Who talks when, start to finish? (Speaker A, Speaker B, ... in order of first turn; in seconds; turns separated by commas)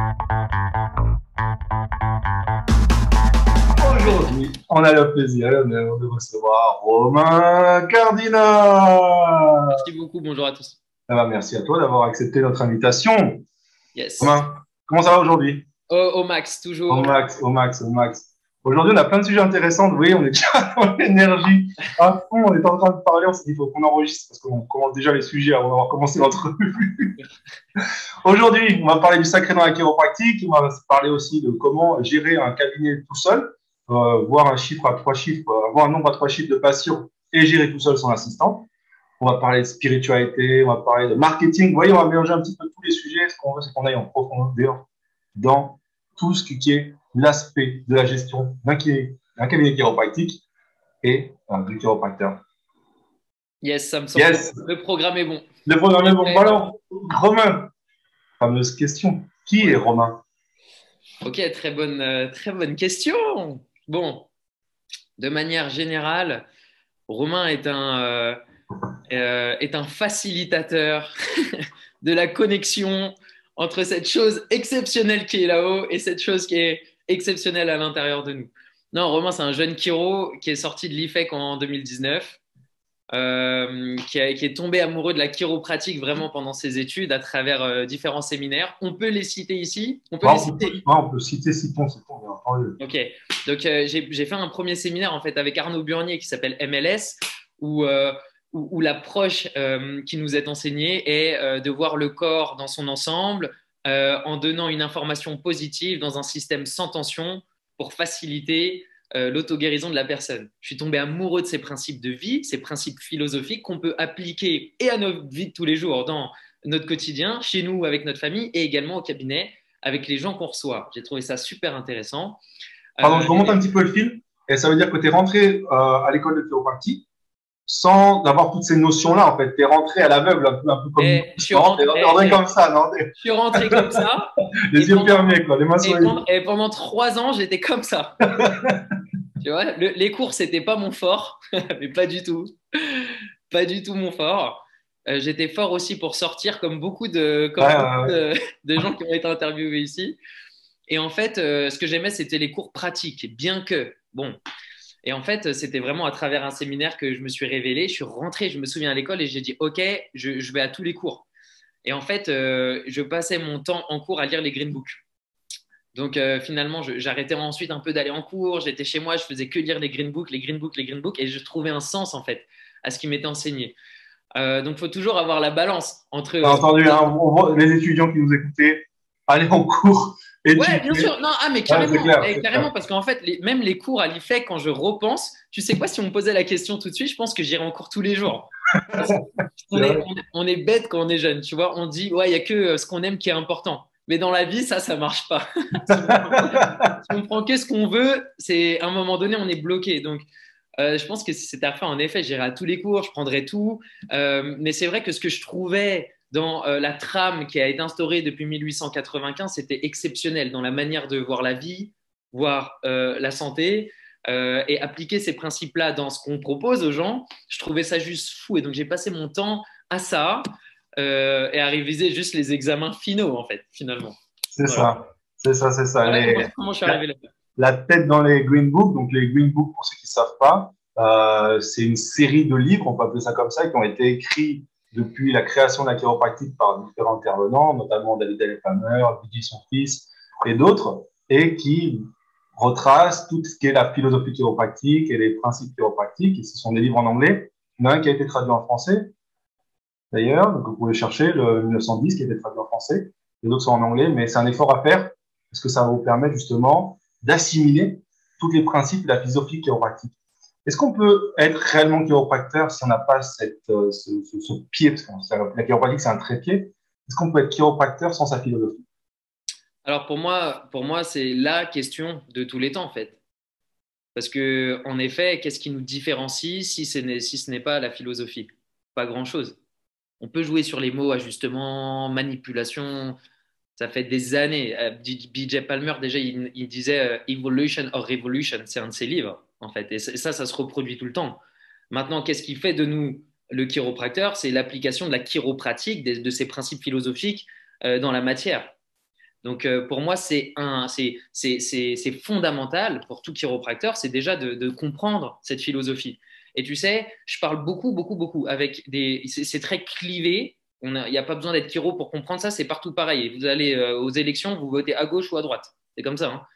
Speaker A: 3.8-9.8, Speaker B: 9.7-10.8, Speaker A: 11.1-13.4, Speaker B: 13.9-14.4, Speaker A: 14.2-15.7, Speaker B: 15.9-17.2, Speaker A: 16.9-27.1, Speaker A: 28.2-38.7, Speaker A: 39.2-44.8, Speaker A: 45.3-50.4, Speaker A: 51.0-52.4, Speaker B: 53.6-55.5, Speaker A: 54.1-54.6, Speaker A: 55.6-57.7, Speaker B: 56.0-56.6, Speaker A: 58.4-60.2, Speaker B: 61.2-64.3, Speaker B: 65.2-66.4, Speaker B: 67.1-68.4, Speaker B: 69.1-82.4, Speaker B: 83.1-90.8, Speaker A: 90.2-92.8, Speaker B: 92.8-122.4, Speaker B: 123.0-123.6, Speaker A: 123.0-127.0, Speaker A: 127.7-134.0, Speaker B: 131.0-132.4, Speaker B: 133.2-138.2, Speaker A: 134.7-136.2, Speaker A: 138.3-138.9, Speaker B: 139.4-150.2, Speaker A: 147.6-148.2, Speaker B: 150.9-154.4, Speaker B: 155.0-161.3, Speaker B: 161.8-165.0, Speaker B: 165.9-173.7, Speaker B: 174.3-177.0, Speaker A: 176.4-181.1, Speaker B: 180.5-200.3, Speaker A: 181.7-182.7, Speaker A: 189.7-190.0, Speaker A: 196.0-196.9, Speaker B: 200.8-220.4, Speaker B: 221.0-224.9, Speaker A: 224.5-227.0, Speaker B: 226.0-227.2, Speaker A: 227.6-249.1, Speaker A: 250.1-260.1, Speaker A: 260.6-268.8, Speaker B: 269.8-273.2, Speaker B: 274.1-279.6, Speaker B: 280.2-283.2, Speaker B: 283.8-298.7, Speaker B: 299.4-316.4